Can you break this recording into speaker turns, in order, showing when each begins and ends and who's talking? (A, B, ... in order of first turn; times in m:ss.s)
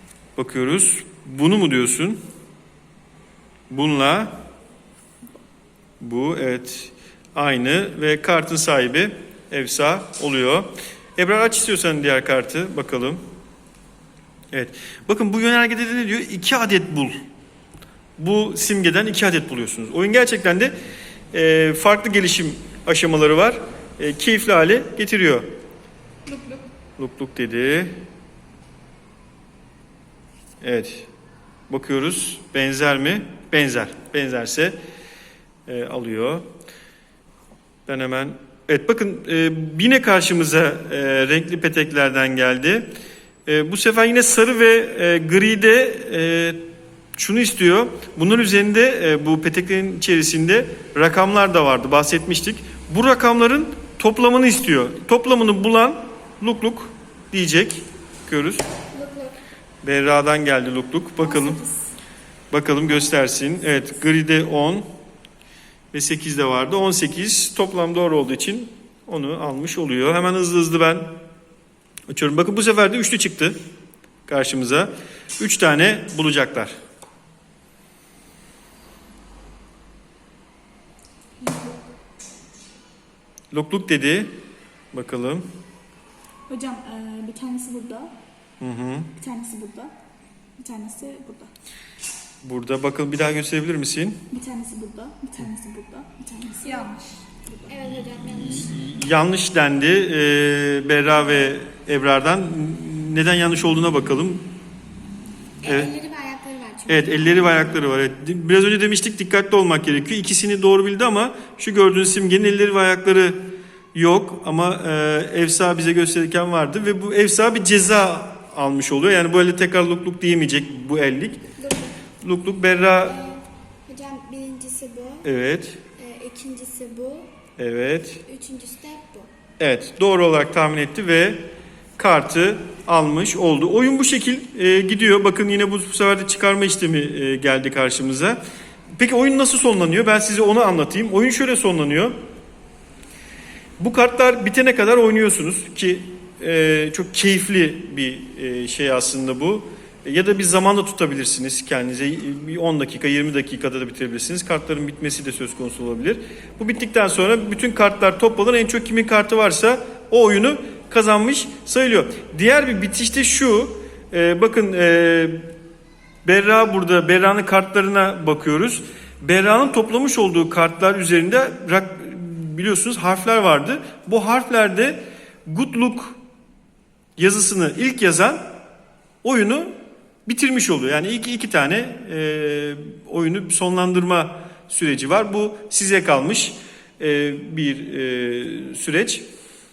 0:00.4-0:02.2 A
0:03.7-0:04.4 A
0:06.0-0:13.2 A
0:14.5-0:17.2 A
0:18.2-0:20.7 A
0:21.3-0:25.5 A
0:27.0-0:27.9 A
0:30.6-0:31.1 A
0:31.7-0:34.8 A
0:35.7-0:36.4 A
0:37.9-0:42.9 A
0:43.5-0:46.6 A
0:47.2-0:58.6 A
0:58.9-0:59.4 B
0:59.8-1:01.6 A
1:02.5-1:04.9 A
1:05.9-1:11.2 A
1:12.1-1:13.6 A
1:14.3-1:16.7 A
1:21.4-1:21.7 C
1:23.5-1:24.3 A
1:24.9-1:25.5 A
1:26.5-1:28.1 C
1:28.6-1:29.1 A
1:29.2-1:29.9 C
1:30.6-1:31.5 C
1:32.4-1:34.2 A
1:34.3-1:37.7 C
1:37.7-1:38.7 B
1:38.2-1:44.5 A
1:45.6-1:47.7 B
1:45.6-1:45.9 A
1:46.9-1:53.4 A
1:53.9-2:01.4 A
2:01.6-2:02.0 B
2:02.2-2:03.2 A
2:03.1-2:05.3 B
2:05.2-2:05.8 A
2:06.0-2:07.3 B
2:07.6-2:08.2 A
2:08.3-2:09.3 B
2:09.6-2:11.4 A
2:12.0-2:18.4 A
2:19.0-2:22.2 A
2:23.8-2:45.5 A
2:46.2-2:56.2 A
2:57.2-2:58.4 A
2:59.2-2:59.7 A
3:00.3-3:09.2 A